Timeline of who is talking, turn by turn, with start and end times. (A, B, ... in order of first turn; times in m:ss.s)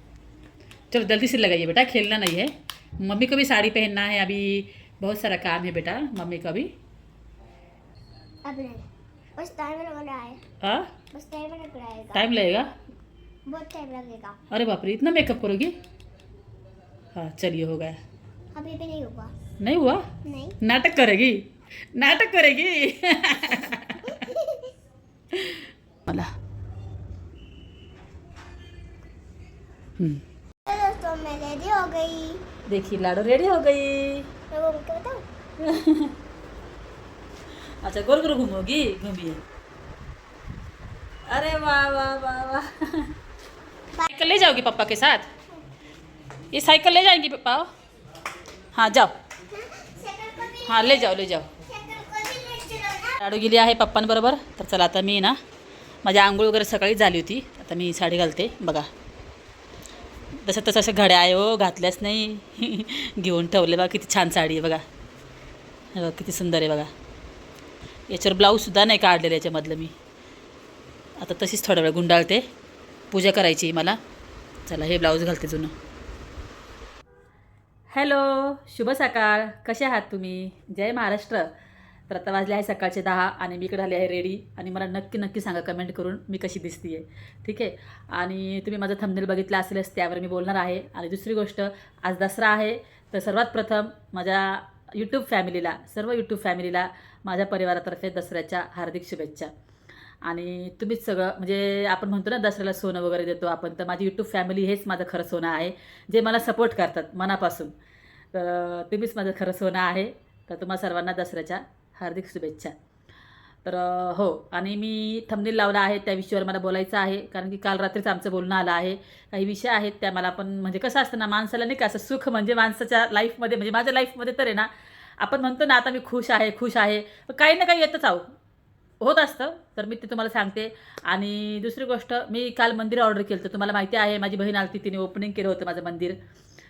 0:00.9-0:06.7 A
0:08.4-0:08.8 B
0:09.4-0:10.4 B
0:10.6-0:10.9 A
0:11.1-0:12.3 B
0:12.1-0:12.7 A
0:13.5-0:14.4 B
0:14.5-0:15.7 A
0:17.1-0:18.0 A
0:18.5-0:19.3 B
0:19.6-0:20.0 A
0:20.2-0:20.6 B
0:20.6-0:24.2 A
0:24.0-0:24.7 B
0:25.3-0:26.3 A
0:30.6-0:32.4 B
0:32.7-0:34.3 A
0:34.5-0:35.2 B
0:35.6-0:36.1 A
0:37.8-0:39.4 A
0:41.3-0:43.1 A
0:44.0-0:44.3 B
0:44.1-0:45.3 A
0:46.5-0:47.7 A
0:48.7-0:49.1 A
0:49.5-0:53.2 B
0:50.6-0:51.5 A
0:53.2-0:55.4 A
0:56.0-0:58.9 A
1:00.4-1:04.8 A
1:05.9-1:06.9 A
1:08.1-1:09.9 A
1:11.2-1:12.4 A
1:13.1-1:14.0 A
1:14.7-1:15.7 A
1:17.9-1:21.5 A
1:22.1-1:39.5 A
1:40.2-1:47.7 A
1:48.3-1:52.7 A
1:53.6-2:08.2 A
2:09.0-2:16.2 A